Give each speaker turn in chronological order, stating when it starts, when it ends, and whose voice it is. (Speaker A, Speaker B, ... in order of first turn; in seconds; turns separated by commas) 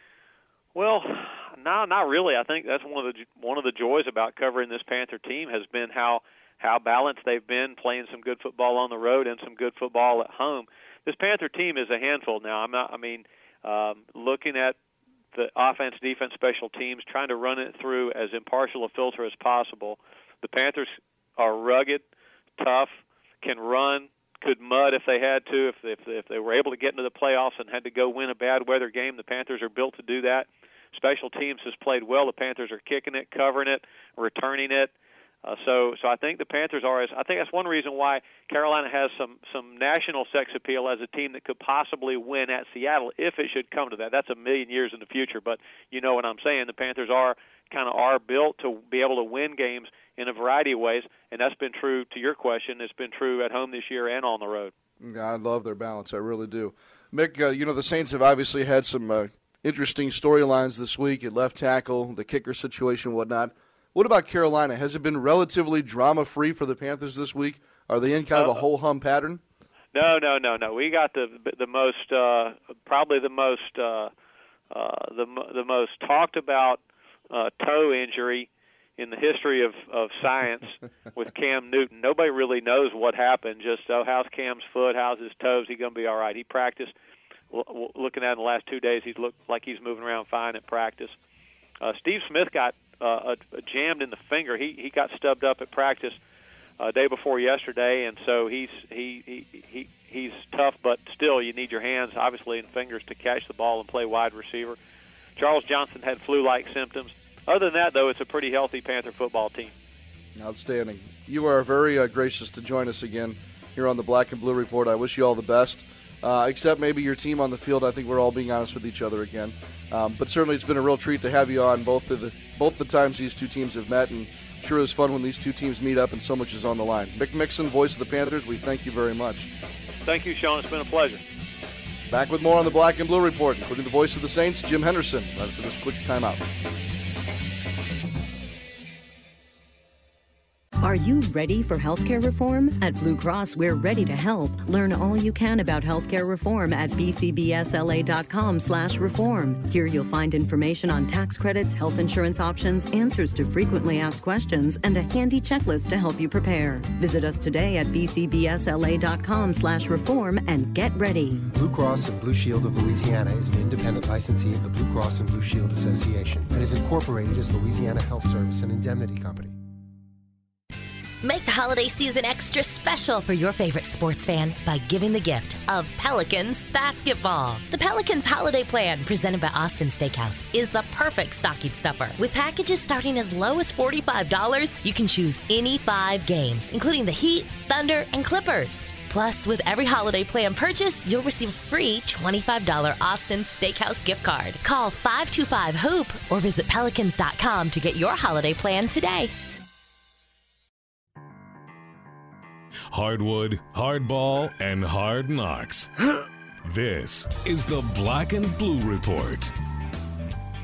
Speaker A: 0.7-14.8, Speaker A: 15.3-22.1, Speaker A: 22.6-34.9, Speaker A: 35.4-54.7, Speaker B: 55.0-69.4, Speaker A: 68.3-68.6, Speaker A: 69.9-74.1, Speaker A: 74.7-86.9, Speaker A: 87.5-91.1, Speaker A: 91.8-96.2, Speaker A: 96.8-104.8, Speaker A: 105.4-109.7, Speaker B: 110.3-129.5, Speaker A: 130.0-131.2, Speaker B: 132.1-136.4, Speaker C: 140.8-161.4, Speaker D: 161.5-169.6, Speaker E: 171.2-199.3, Speaker F: 202.9-205.9, Speaker F: 206.6-209.5